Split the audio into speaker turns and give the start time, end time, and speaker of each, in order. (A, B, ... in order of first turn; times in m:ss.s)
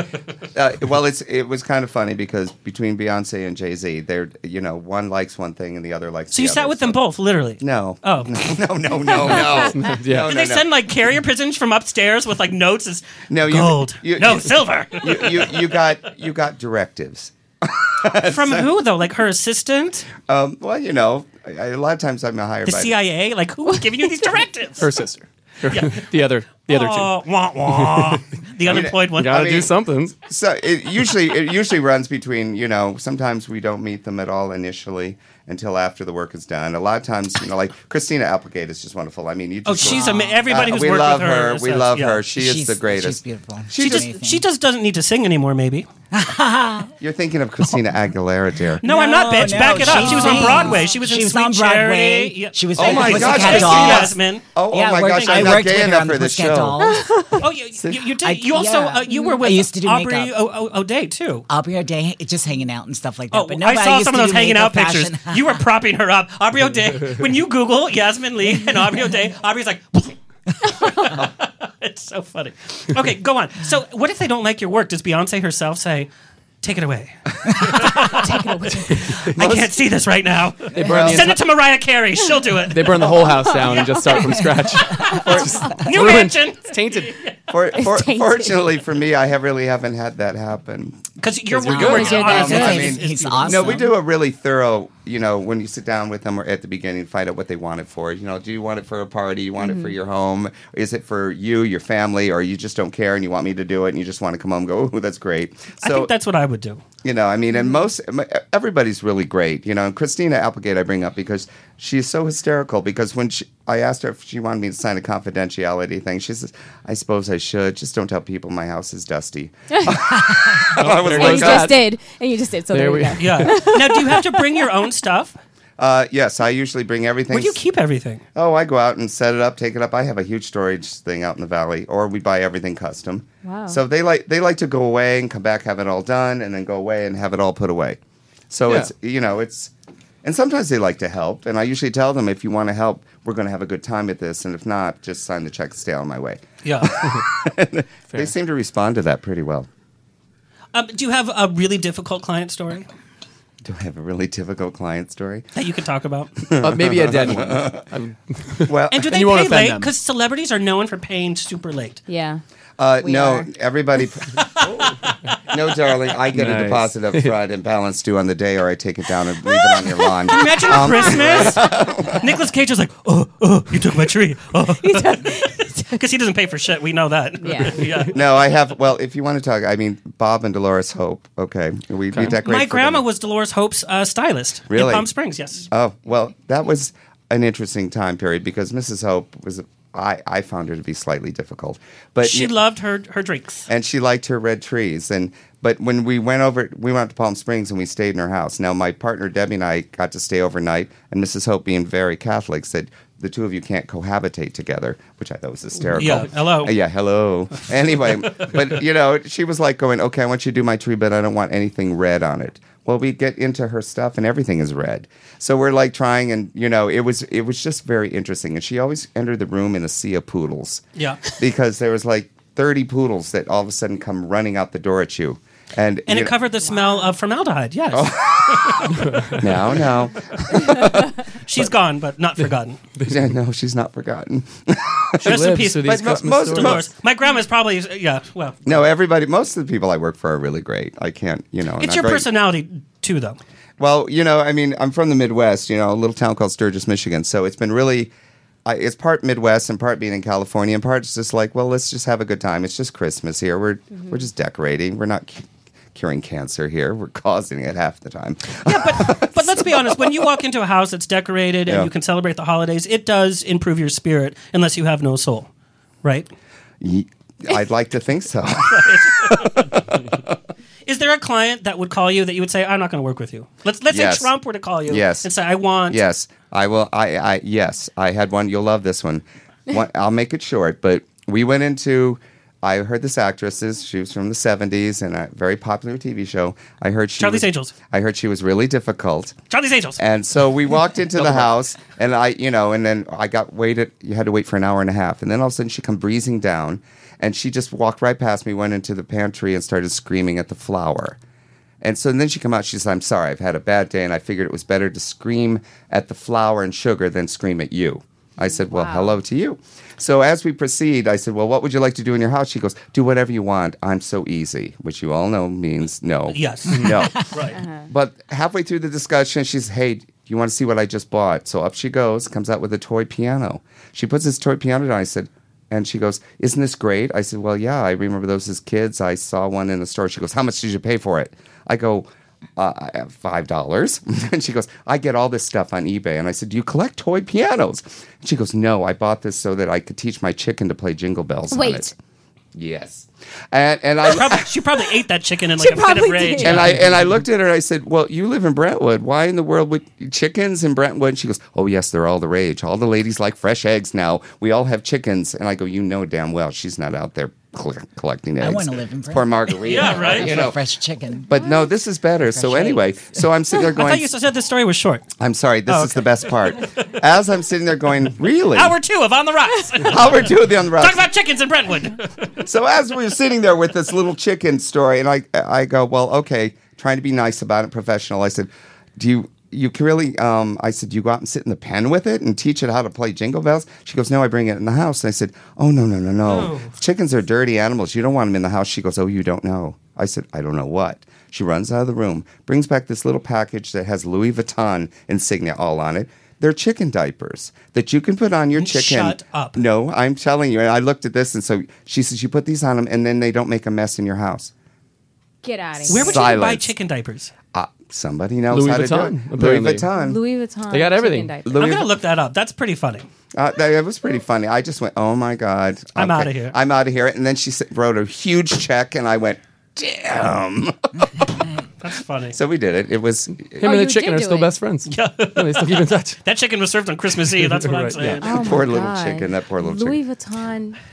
0:00.5-0:07.0 A
0:06.3-0:08.6 B
0:07.6-0:10.6 A
0:09.0-0:09.9 C
0:09.8-0:10.3 D
0:10.3-0:15.7 B
0:13.3-0:18.7 A
0:18.3-0:20.1 B
0:20.2-0:22.9 A
0:22.6-0:24.8 B
0:23.6-0:24.4 C
0:24.8-0:27.1 D
0:25.7-0:29.4 B
0:27.6-0:28.2 D
0:28.6-0:29.7 A
0:29.2-0:30.2 D
0:30.2-0:43.2 A
0:39.6-0:42.2 B
0:39.9-0:40.2 E
0:42.3-0:44.4 E
0:43.7-0:44.1 A
0:43.8-0:45.9 B
0:46.1-0:46.9 E
0:47.0-0:48.8 A
0:48.8-0:54.2 E
0:48.8-0:54.4 B
0:49.6-0:50.7 A
0:52.8-0:56.7 A
0:54.7-0:57.3 E
0:55.0-0:55.7 B
0:56.8-0:57.4 C
0:57.4-1:01.4 B
0:57.8-0:58.1 A
0:58.2-1:00.3 E
1:01.5-1:05.6 E
1:03.3-1:10.1 B
1:10.7-1:16.1 B
1:16.6-1:23.0 B
1:18.1-1:19.1 C
1:19.4-1:19.7 A
1:20.8-1:21.4 D
1:20.8-1:21.3 A
1:22.7-1:27.1 D
1:23.3-1:24.4 C
1:24.9-1:25.2 E
1:25.3-1:25.9 C
1:25.8-1:27.3 B
1:27.5-1:31.0 A
1:27.7-1:28.8 C
1:31.2-1:33.8 B
1:31.7-1:33.9 E
1:31.7-1:31.9 D
1:31.7-1:46.1 A
1:39.6-1:40.0 C
1:45.8-1:46.8 B
1:47.0-2:01.7 A
1:47.5-1:47.8 C
1:59.7-2:00.0 C
2:00.8-2:01.8 D
2:01.0-2:04.7 C
2:02.7-2:03.5 D
2:03.2-2:05.4 B
2:05.8-2:07.6 A
2:07.3-2:08.2 B
2:08.3-2:18.0 A
2:13.4-2:13.8 C
2:18.5-2:19.7 A
2:20.2-2:29.7 A
2:26.6-2:26.9 B
2:30.7-2:32.8 B
2:33.6-2:35.4 A
2:35.5-2:36.3 B
2:36.5-2:37.8 A
2:36.6-2:39.9 D
2:38.6-2:39.1 A
2:38.9-2:42.0 B
2:42.1-2:42.4 C
2:42.8-2:44.7 A
2:43.0-2:43.5 C
2:45.5-2:52.2 A
2:46.3-2:47.3 D
2:50.3-2:58.2 B
2:54.8-2:56.0 C
2:57.4-2:57.8 C
2:58.1-3:03.0 A
3:02.1-3:02.4 D
3:02.4-3:05.6 B
3:04.7-3:05.1 A
3:05.7-3:12.5 A
3:12.2-3:13.6 B
3:13.7-3:40.8 A
3:25.9-3:26.7 B
3:41.0-3:41.2 B
3:41.3-3:46.3 A
3:46.1-3:49.0 B
3:46.6-3:47.2 C
3:47.9-3:51.6 A
3:51.4-3:52.8 B
3:53.0-3:56.9 A
3:55.2-3:56.8 D
3:55.2-3:58.8 B
3:58.6-4:02.2 A
4:01.8-4:03.4 B
4:03.8-4:08.1 A
4:08.6-4:20.0 A
4:13.9-4:14.2 C
4:18.6-4:25.5 B
4:21.6-4:21.9 A
4:26.0-4:26.3 B
4:26.8-4:30.2 A
4:28.7-4:29.7 B
4:30.8-4:36.0 B
4:33.9-4:34.3 A
4:34.9-4:35.3 A
4:35.9-4:49.4 A
4:47.2-4:47.7 B
4:49.5-4:50.0 B
4:50.0-5:01.2 A
5:01.8-5:41.9 A
5:08.4-5:09.2 C
5:16.3-5:17.6 B
5:17.5-5:17.9 C
5:41.5-5:41.9 C
5:42.5-5:44.6 A
5:44.0-5:46.8 B
5:45.6-5:46.7 C
5:46.4-6:00.6 A
5:58.4-6:01.6 E
5:59.6-6:00.3 B
6:01.3-6:04.1 A
6:02.2-6:02.9 E
6:03.6-6:05.0 B
6:05.2-6:08.8 A
6:05.7-6:06.1 B
6:08.5-6:12.0 B
6:09.8-6:11.1 A
6:12.4-6:44.5 A
6:26.2-6:26.7 B
6:38.6-6:39.6 B
6:45.4-6:46.3 C
6:45.9-6:47.3 B
6:45.9-6:46.7 A
6:47.5-6:50.2 A
6:48.5-6:49.9 D
6:49.9-6:51.7 C
6:50.7-6:51.3 D
6:51.4-6:51.9 A
6:51.5-6:53.1 B
6:53.3-7:01.3 A
6:56.0-6:56.6 B
7:01.8-7:02.4 B
7:02.3-7:03.6 A
7:03.6-7:06.2 D
7:03.6-7:04.6 C
7:04.9-7:08.4 B
7:07.4-7:08.2 D
7:08.2-7:10.8 C
7:08.2-7:10.0 A